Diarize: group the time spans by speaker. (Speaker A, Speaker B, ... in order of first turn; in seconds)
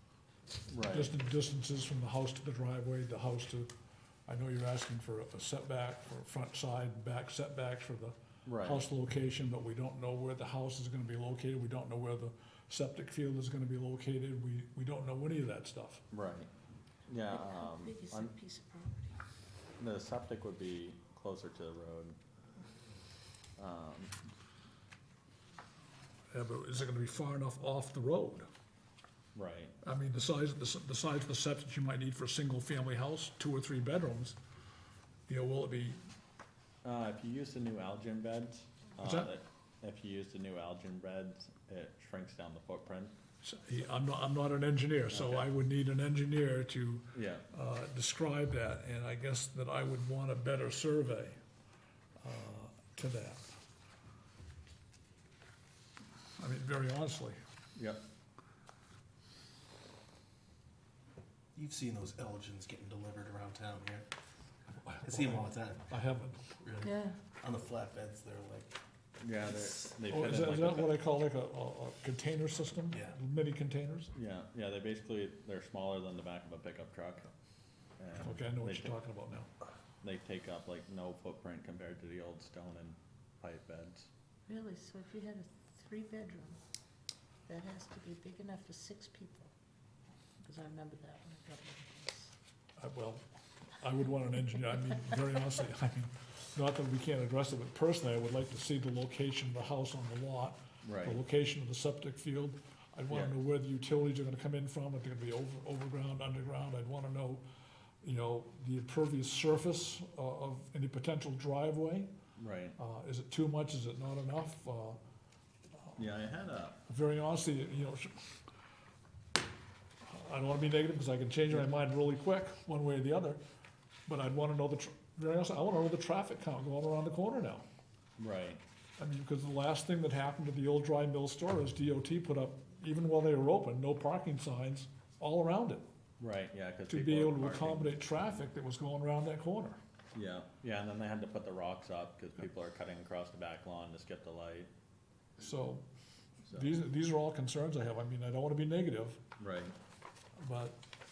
Speaker A: 0.7-1.1, 8.4-8.8, 16.1-16.5, 17.1-18.3, 19.8-22.2, 23.6-24.1, 29.4-29.8, 36.8-43.1, 45.1-45.5, 47.1-47.5, 57.8-58.0, 69.2-71.0, 74.1-77.3, 78.0-78.9, 80.0-84.1, 100.8-101.2, 103.1-103.3, 112.4-112.8, 116.0-116.8, 128.2-128.6, 136.2-138.0, 140.1-144.7, 146.5-146.8, 149.4-149.8
Speaker B: 0.9-3.7, 4.3-16.0, 26.3-28.5, 29.8-34.4, 35.3-36.0, 39.0-39.3, 43.4-51.4, 52.2-53.5, 56.4-57.4, 64.8-66.5, 70.1-74.1, 78.2-79.5, 92.8-93.2, 93.8-107.4, 108.0-112.1, 112.8-115.0, 116.9-118.4, 120.1-123.4, 124.1-127.7, 129.0-135.8, 136.9-139.8, 145.4-145.8, 146.5-149.2, 150.4-150.8
Speaker C: 17.3-19.2, 66.8-67.2, 84.5-86.6, 87.5-89.5, 90.4-92.3
Speaker D: 61.5-64.1, 65.0-68.8, 69.4-70.0, 72.9-73.2